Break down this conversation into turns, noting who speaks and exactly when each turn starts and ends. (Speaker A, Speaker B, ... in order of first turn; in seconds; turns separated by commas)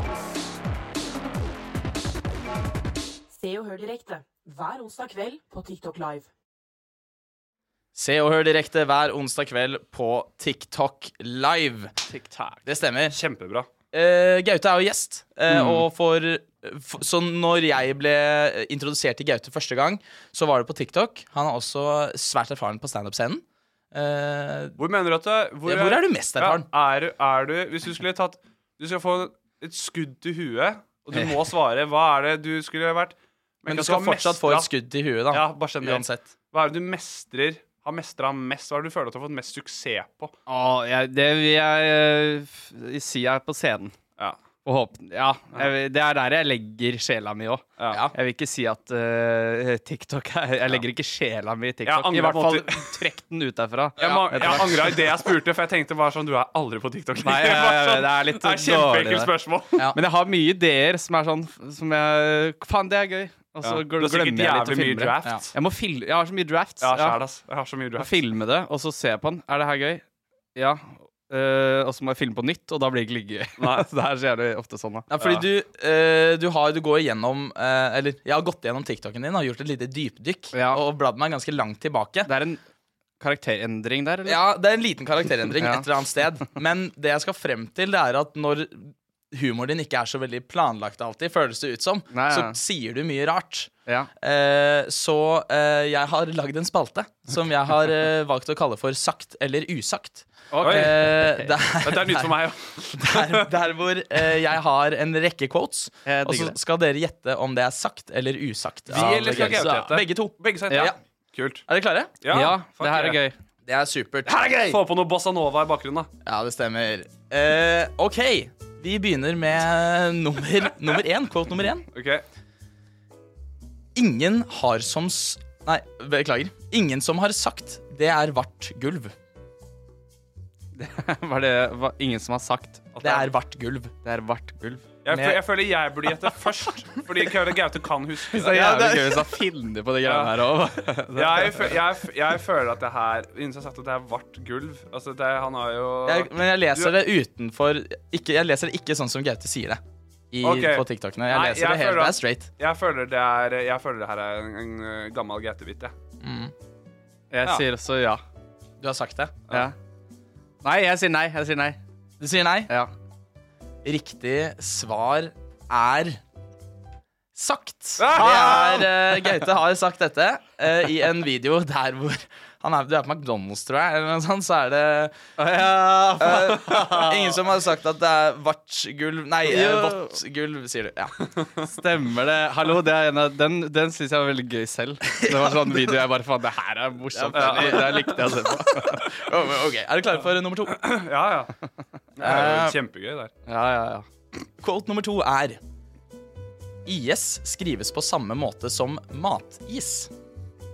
Speaker A: 3.3-6.3, Speaker B: 8.0-11.9, Speaker C: 12.1-12.6, Speaker B: 12.7-13.2, Speaker D: 13.1-13.7, Speaker B: 13.9-24.8, Speaker C: 15.5-15.8, Speaker D: 24.8-34.7, Speaker B: 25.6-26.7, Speaker B: 33.7-36.3, Speaker D: 35.3-40.3, Speaker C: 40.5-44.0, Speaker C: 44.6-54.9, Speaker D: 47.8-48.0, Speaker D: 51.8-52.9, Speaker D: 54.0-59.8, Speaker B: 54.3-55.0, Speaker C: 57.2-59.3, Speaker C: 59.9-67.2, Speaker D: 63.6-65.5, Speaker D: 66.8-68.1, Speaker C: 68.0-70.0, Speaker C: 70.5-75.1, Speaker D: 73.6-73.9, Speaker B: 75.1-82.3, Speaker D: 75.2-75.4, Speaker C: 80.5-80.8, Speaker C: 82.2-82.6, Speaker C: 83.2-84.4, Speaker B: 84.2-102.3, Speaker C: 85.6-85.9, Speaker C: 92.1-92.6, Speaker C: 100.5-101.5, Speaker D: 100.6-101.1, Speaker D: 101.8-103.5, Speaker B: 103.0-111.0, Speaker C: 106.0-106.6, Speaker D: 108.9-111.6, Speaker C: 109.2-109.7, Speaker B: 111.7-112.1, Speaker D: 112.2-113.2, Speaker C: 112.3-113.3, Speaker B: 113.7-114.8, Speaker D: 114.3-116.1, Speaker B: 116.2-121.9, Speaker D: 121.9-122.2, Speaker B: 123.9-129.1, Speaker C: 130.7-132.9, Speaker D: 132.9-133.3, Speaker B: 133.0-133.9, Speaker C: 134.0-134.8, Speaker D: 135.0-138.6, Speaker B: 135.1-135.4, Speaker B: 138.4-139.3, Speaker C: 138.4-141.7, Speaker D: 140.0-140.3, Speaker D: 141.1-147.0, Speaker B: 146.1-149.8, Speaker B: 150.3-152.5, Speaker D: 150.4-155.9, Speaker B: 156.2-156.5, Speaker C: 157.3-158.2, Speaker B: 158.8-159.4, Speaker C: 160.6-161.8, Speaker B: 162.2-162.7, Speaker B: 163.8-166.2, Speaker B: 167.3-175.2, Speaker D: 168.0-168.9, Speaker C: 175.4-177.3, Speaker B: 176.2-181.2, Speaker C: 179.4-180.2, Speaker C: 181.7-189.1, Speaker B: 185.1-186.0, Speaker B: 187.1-190.9, Speaker D: 187.3-188.2, Speaker D: 190.7-191.5, Speaker D: 192.2-193.3, Speaker B: 192.2-192.8, Speaker C: 193.5-194.0, Speaker B: 194.6-195.6, Speaker B: 196.8-200.1